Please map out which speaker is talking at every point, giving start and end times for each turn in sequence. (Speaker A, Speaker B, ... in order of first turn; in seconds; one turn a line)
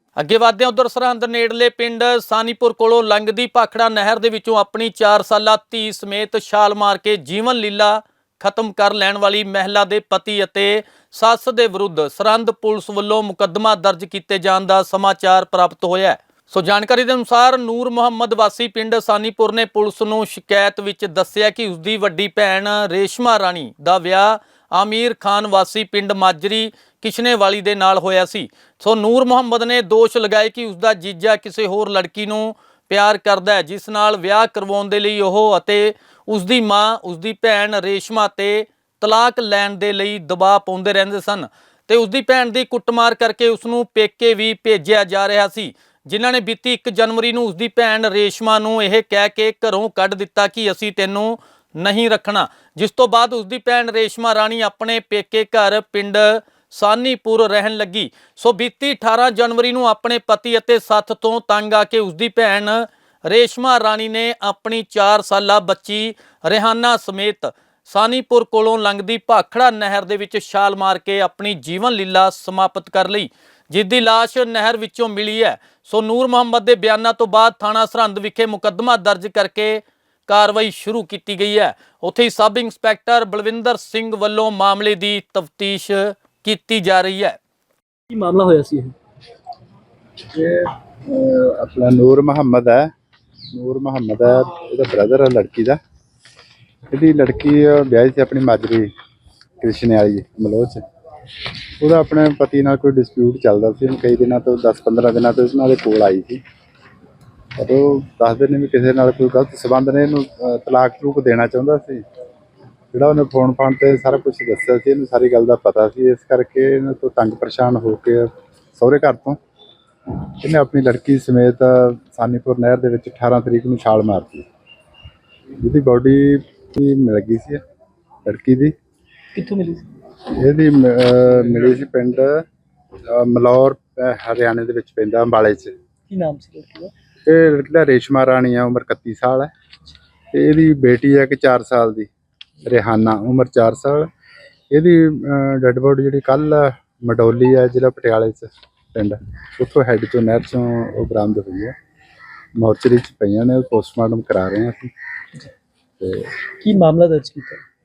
Speaker A: 0.2-87.4
Speaker B: 88.1-89.0
Speaker C: 90.3-92.9
Speaker C: 93.5-95.8
Speaker C: 96.9-98.9
Speaker C: 99.6-100.8
Speaker C: 101.8-106.4
Speaker C: 107.6-112.0
Speaker C: 112.9-119.4
Speaker C: 120.4-124.5
Speaker C: 125.6-127.6
Speaker C: 128.2-128.8
Speaker B: 129.3-129.9
Speaker C: 130.3-132.4
Speaker C: 133.1-135.8
Speaker B: 136.1-136.9
Speaker C: 137.3-139.5
Speaker C: 140.3-142.1
Speaker C: 142.7-144.1
Speaker C: 144.7-151.8
Speaker C: 152.6-154.9
Speaker C: 156.0-156.3
Speaker B: 156.6-157.6